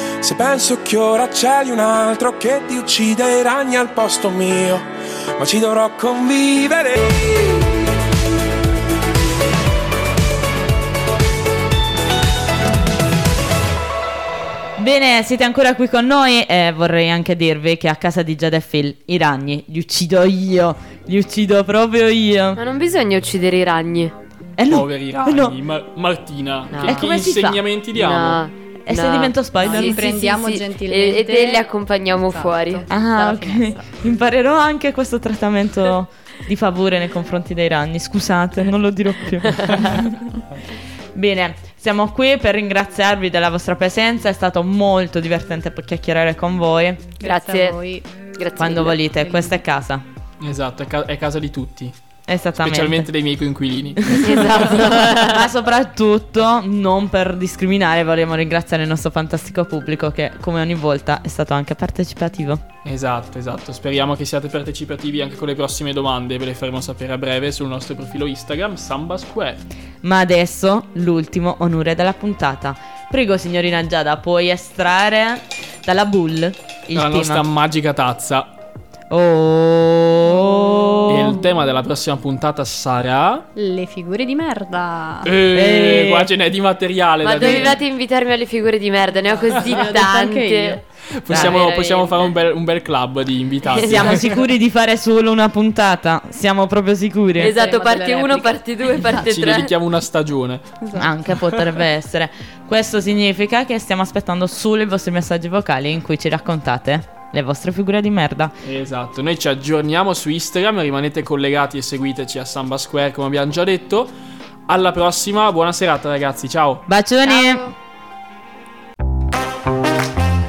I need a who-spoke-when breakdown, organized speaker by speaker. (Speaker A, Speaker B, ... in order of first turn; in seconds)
Speaker A: 0.2-7.6
Speaker B: 14.8-22.6, 24.6-25.6, 26.8-27.6, 28.9-30.0, 32.9-40.2, 41.1-47.1, 48.6-50.0, 52.3-53.1, 54.0-62.6, 70.0-77.4, 79.1-81.4, 85.5-86.3, 93.9-97.5, 101.0-108.5, 116.9-117.7
Speaker C: 22.6-24.1, 26.7-27.3, 27.9-32.8, 47.2-47.8, 48.3-49.0, 54.2-55.5, 87.2-92.3, 93.7-94.0, 97.4-99.7
Speaker D: 24.7-28.4, 50.4-51.9, 52.6-54.8, 62.8-69.6, 76.9-78.5, 81.1-83.5, 85.2-87.8, 91.1-94.3, 99.3-100.7, 108.6-114.1, 114.7-116.8
Speaker E: 29.6-31.7, 32.3-33.9, 47.2-48.1, 49.2-49.6, 83.5-85.3, 89.3-90.8, 97.4-99.5, 100.8-101.1, 117.2-117.7